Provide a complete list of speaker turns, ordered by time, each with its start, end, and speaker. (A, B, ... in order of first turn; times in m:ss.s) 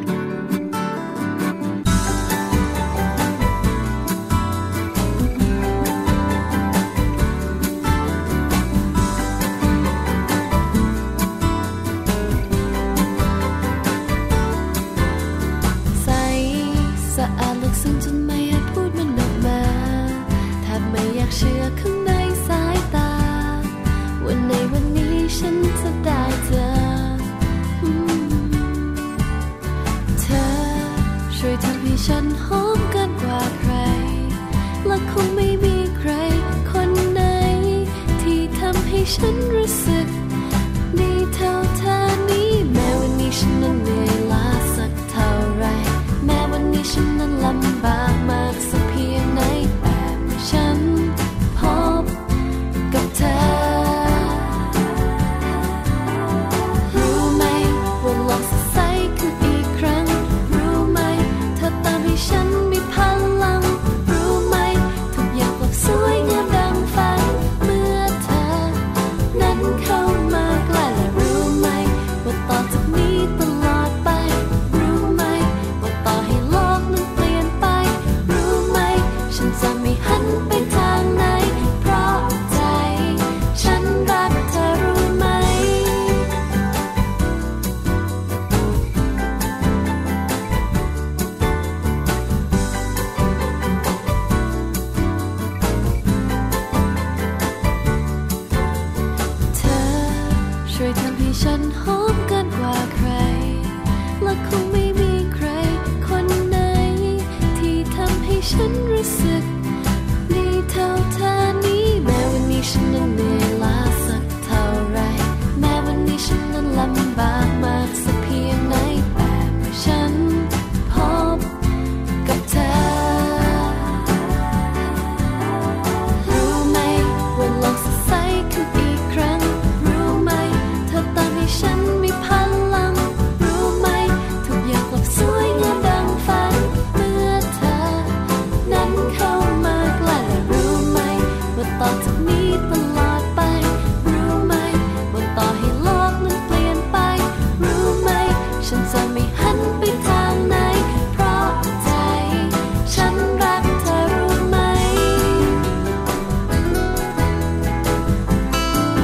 0:15.9-0:29.2 A
0:30.2-0:40.2 A
0:40.9-0:52.2 A
0:52.9-0:54.8 A
0:56.9-1:26.3 A
1:39.5-1:49.6 A
1:50.2-2:01.6 A
2:02.2-2:04.2 A
2:06.2-2:35.6 A